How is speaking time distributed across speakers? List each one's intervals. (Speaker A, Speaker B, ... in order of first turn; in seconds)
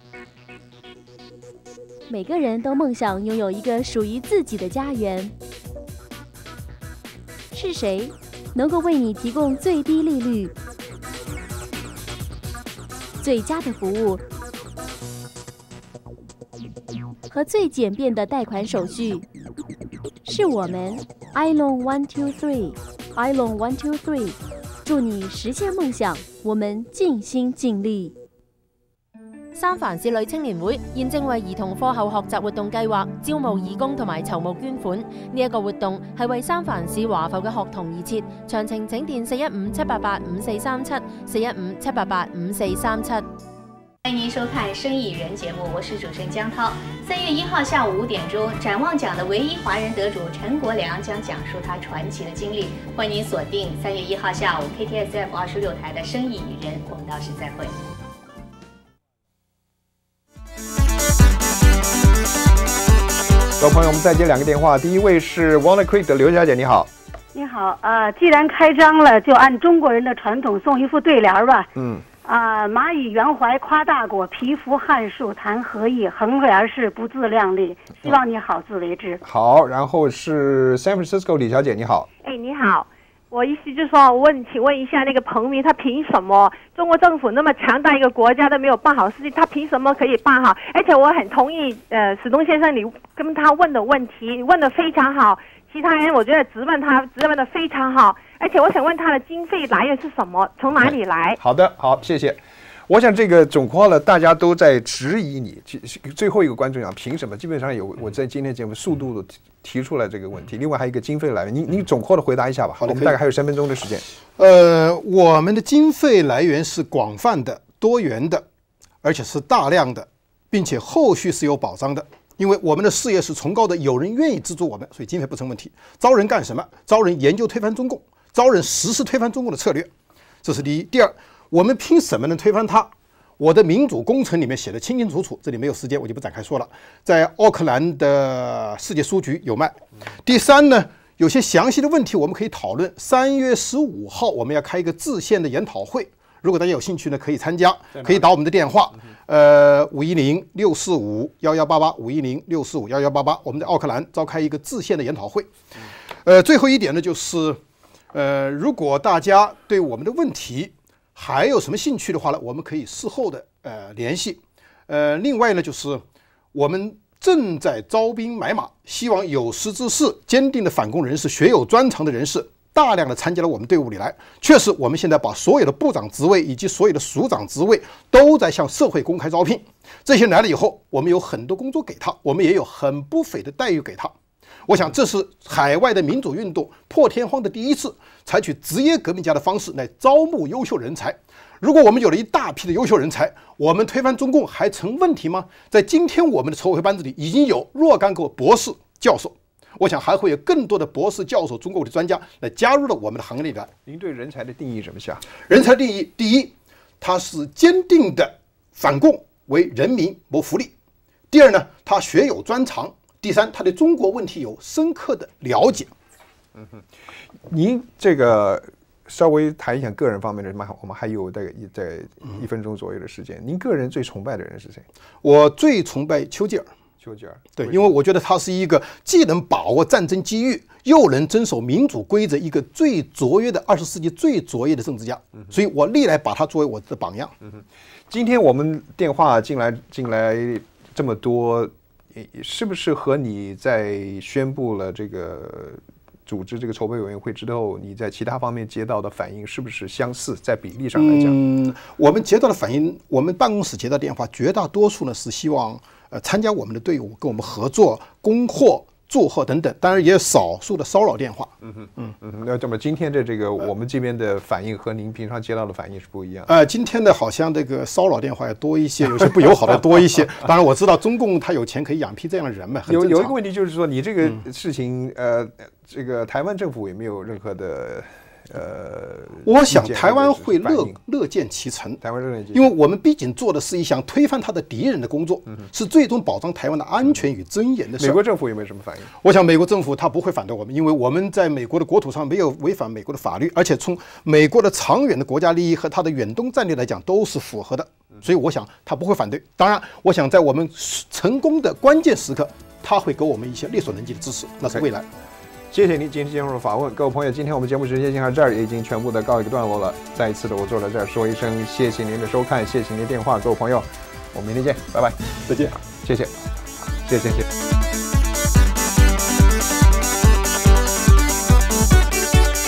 Speaker A: 2.1-5.3, 7.5-10.5, 13.2-14.2, 17.3-19.2, 20.2-28.1
Speaker B: 29.5-43.2
Speaker C: 44.0-57.8
Speaker D: 63.6-66.9, 71.8-72.0, 79.2-82.1, 100.8-114.0, 147.9-148.2, 203.9-205.2, 216.6-216.8, 217.5-224.8, 227.0-227.9, 237.4-251.4, 261.7-266.5, 272.9-281.0, 282.0-282.7, 288.0-289.1, 305.7-315.2, 315.9-316.4, 317.0-317.4
Speaker E: 67.3-71.7, 72.2-79.2
Speaker F: 82.2-101.4
Speaker G: 112.8-113.2, 114.4-118.4, 119.0-129.9, 130.4-155.5, 156.2-157.6, 158.1-166.0, 166.5-184.1, 184.7-203.7, 205.4-210.7, 211.3-215.9, 225.2-226.7, 227.6-237.3, 250.9-262.1, 266.5-273.3, 279.4-282.0, 282.5-288.2, 289.2-305.1, 315.5-315.7